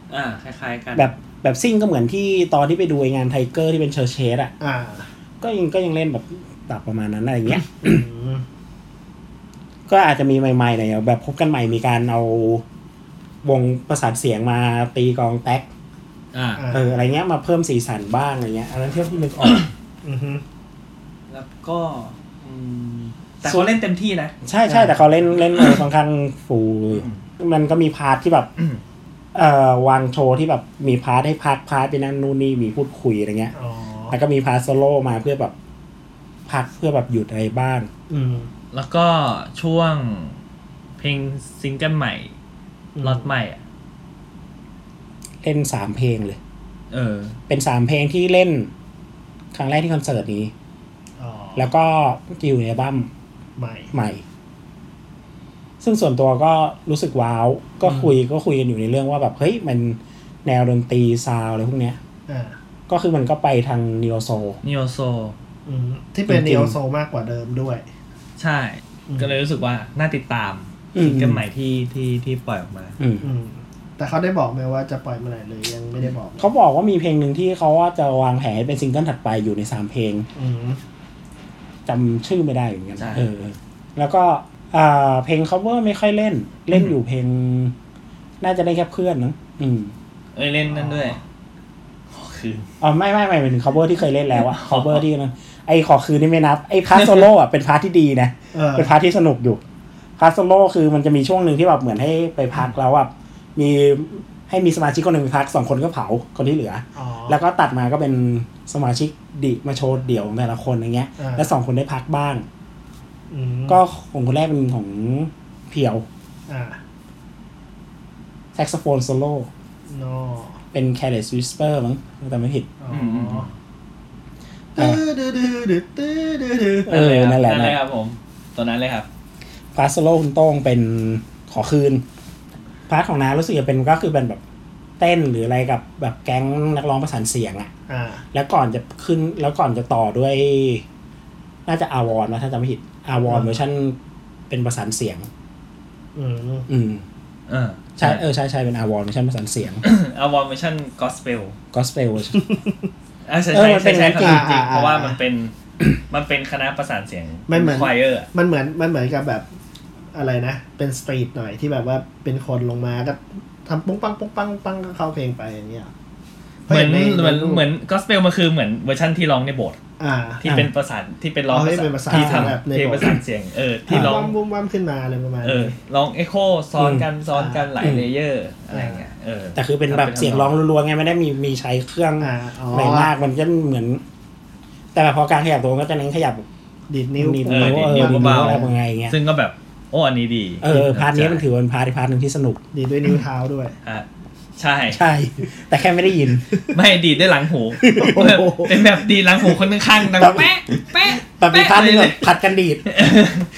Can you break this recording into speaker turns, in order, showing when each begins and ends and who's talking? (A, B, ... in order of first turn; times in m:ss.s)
0:00.1-0:01.1 A
0:01.0-0:04.5 B
0:04.6-0:05.1 C
0:05.4-0:08.0 B
0:07.8-0:08.4 C
0:09.9-0:12.6 B
0:13.4-0:15.6 B
0:16.3-0:16.6 A
0:16.6-0:17.0 C
0:16.7-0:19.7 B
0:20.0-0:20.4 C
0:21.3-0:24.3 A
0:24.4-0:28.5 B
0:24.6-0:25.0 C
0:26.9-0:27.2 A
0:29.3-0:33.5 B
0:33.5-0:34.2 C
0:34.1-0:35.5 B
0:36.5-0:37.9 B
0:38.1-0:38.5 C
0:38.7-0:40.4 A
0:41.0-0:42.3 A
0:43.0-0:43.3 C
0:43.0-0:43.6 A
0:45.4-0:46.4 B
0:46.9-0:47.4 A
0:47.5-0:48.7 B
0:49.5-0:50.5 B
0:51.2-0:51.7 C
0:51.6-0:53.1 B
0:53.6-0:53.9 C
0:53.9-0:54.2 B
0:55.8-1:02.0 B
0:57.8-0:58.1 C
1:02.3-1:02.6 C
1:02.9-1:04.6 B
1:04.6-1:05.3 A
1:05.6-1:07.8 C
1:06.3-1:06.7 B
1:08.4-1:13.0 A
1:10.9-1:11.4 B
1:13.0-1:13.2 B
1:13.2-1:16.5 C
1:16.4-1:20.3 B
1:20.4-1:20.8 C
1:21.8-1:27.7 B
1:23.0-1:23.2 A
1:28.4-1:29.9 B
1:30.3-1:31.2 A
1:30.7-1:31.2 C
1:32.1-1:32.7 A
1:32.8-1:39.6 B
1:34.3-1:35.0 A
1:36.9-1:37.2 A
1:38.5-1:38.9 C
1:40.2-1:52.4 B
1:47.0-1:47.4 C
1:51.2-1:51.5 C
1:53.3-1:53.8 C
1:53.7-1:56.0 B
1:56.5-1:56.8 C
1:58.5-1:59.5 B
1:59.9-2:00.6 C
2:00.7-2:02.7 B
2:02.8-2:03.5 C
2:02.9-2:03.5 A
2:04.7-2:06.9 C
2:06.9-2:07.8 B
2:06.9-2:09.1 A
2:09.7-2:12.0 B
2:12.9-2:14.4 B
2:15.0-2:17.7 B
2:17.9-2:18.2 C
2:18.3-2:20.8 B
2:21.6-2:24.0 B
2:23.2-2:23.6 C
2:24.5-2:25.3 B
2:26.1-2:26.7 C
2:26.7-2:27.0 B
2:27.5-2:28.2 A
2:28.0-2:29.8 B
2:29.8-2:31.6 A
2:31.7-2:32.4 B
2:32.3-2:32.8 C
2:33.2-2:38.3 A
2:33.5-2:34.5 B
2:34.2-2:35.2 C
2:37.5-2:39.4 C
2:40.1-2:45.9 C
2:46.7-2:47.6 C
2:46.7-2:49.8 A
2:50.0-2:50.4 C
2:50.4-2:54.3 A
2:50.4-2:50.7 B
2:51.5-2:53.1 C
2:52.1-2:52.5 B
2:53.9-2:54.2 B
2:53.9-2:55.7 C
2:55.4-3:00.5 A
2:56.8-2:57.0 B
2:57.3-2:57.6 C
2:57.8-2:58.1 B
2:58.7-2:59.0 C
2:59.6-3:04.0 B
3:02.2-3:03.1 C
3:04.9-3:06.4 B
3:06.9-3:08.7 C
3:07.2-3:09.2 B
3:07.5-3:11.4 A
3:10.6-3:12.6 B
3:12.7-3:13.7 C
3:14.6-3:15.0 A
3:14.9-3:16.4 B
3:16.7-3:22.2 A
3:17.8-3:18.8 C
3:17.9-3:18.3 B
3:20.1-3:22.9 B
3:22.9-3:23.5 A